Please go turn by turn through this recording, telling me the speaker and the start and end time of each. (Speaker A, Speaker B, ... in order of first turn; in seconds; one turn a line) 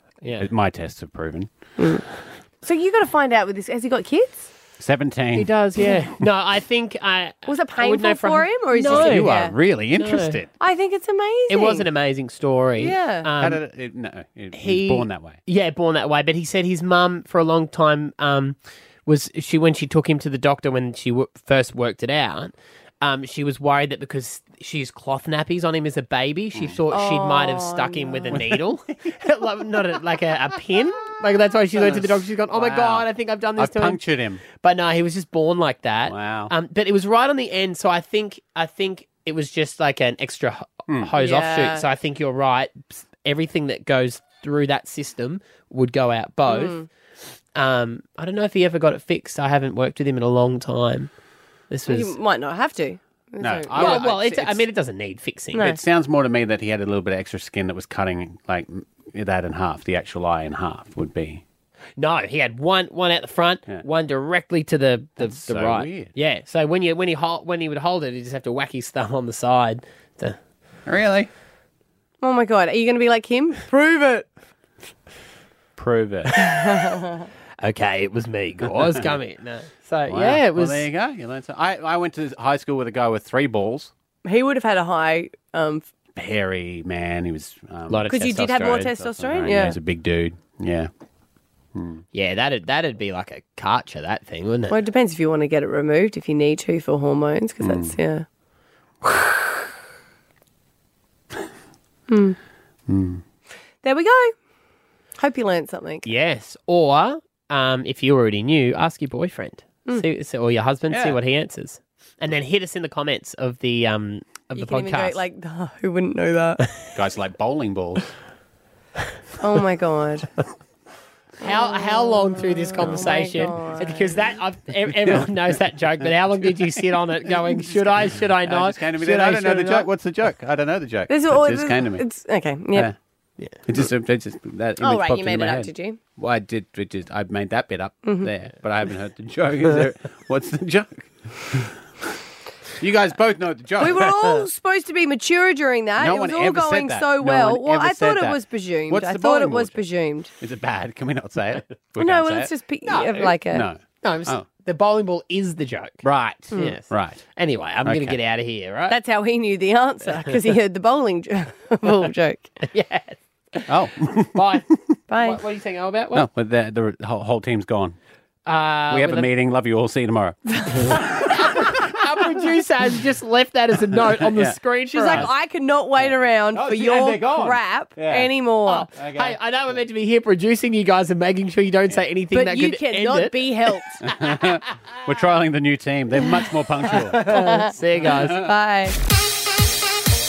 Speaker A: 0.2-0.5
Speaker B: 0.4-1.5
Speaker C: 1.8-2.0
Speaker C: 2.6-4.5
Speaker B: 4.8-6.1
Speaker A: 5.3-9.3
Speaker C: 7.5-9.6
Speaker B: 8.8-10.5
Speaker A: 9.9-10.4
Speaker C: 10.6-11.9
Speaker A: 11.5-13.6
Speaker C: 12.8-13.3
Speaker B: 13.4-15.4
Speaker A: 14.6-34.0
Speaker C: 26.9-28.4
Speaker B: 28.3-28.6
Speaker B: 31.8-34.4
Speaker A: 34.5-46.8
Speaker B: 36.1-36.5
Speaker C: 41.2-41.9
Speaker C: 46.5-46.9
Speaker A: 47.6-51.1
Speaker A: 51.7-52.2
Speaker C: 51.9-54.0
Speaker B: 53.4-54.6
Speaker A: 53.7-55.7
Speaker C: 55.5-55.8
Speaker B: 55.5-61.4
Speaker A: 62.0-70.4
Speaker B: 65.2-66.1
Speaker B: 70.9-71.3
Speaker C: 72.2-74.3
Speaker B: 75.8-76.3
Speaker A: 76.3-76.9
Speaker C: 76.5-77.3
Speaker A: 77.6-80.9
Speaker B: 80.1-83.9
Speaker C: 84.2-85.9
Speaker B: 86.2-88.1
Speaker A: 87.9-88.9
Speaker C: 88.1-89.8
Speaker B: 88.8-90.9
Speaker B: 91.8-92.0
Speaker A: 92.1-94.8
Speaker C: 94.7-98.2
Speaker B: 97.6-98.0
Speaker C: 102.1-102.4
Speaker B: 102.9-103.2
Speaker C: 103.8-104.3
Speaker C: 105.2-106.1
Speaker A: 106.0-115.2
Speaker B: 110.9-111.2
Speaker C: 114.5-116.7
Speaker B: 116.9-118.1
Speaker C: 119.4-120.3
Speaker A: 121.4-129.9
Speaker C: 121.4-124.2
Speaker B: 123.2-123.8
Speaker B: 125.0-125.3
Speaker B: 127.6-132.1
Speaker C: 131.1-132.9
Speaker B: 133.7-141.8
Speaker C: 134.8-136.0
Speaker C: 138.0-138.3
Speaker B: 142.8-144.1
Speaker C: 143.8-150.3
Speaker B: 146.0-149.8
Speaker B: 150.4-152.5
Speaker C: 152.0-153.7
Speaker A: 152.8-153.4
Speaker B: 153.5-154.4
Speaker A: 154.0-159.0
Speaker B: 156.0-157.2
Speaker B: 157.8-158.2
Speaker C: 158.9-162.5
Speaker A: 162.7-163.7
Speaker B: 163.7-164.6
Speaker A: 164.3-166.3
Speaker C: 165.1-165.4
Speaker B: 166.1-168.0
Speaker A: 168.5-169.3
Speaker B: 168.9-172.2
Speaker A: 170.8-175.3
Speaker B: 174.0-174.6
Speaker C: 174.9-178.9
Speaker B: 176.5-178.3
Speaker A: 178.7-184.7
Speaker B: 179.0-179.4
Speaker C: 182.3-184.1
Speaker B: 184.0-187.3
Speaker A: 186.9-188.5
Speaker C: 187.2-189.0
Speaker B: 188.1-188.4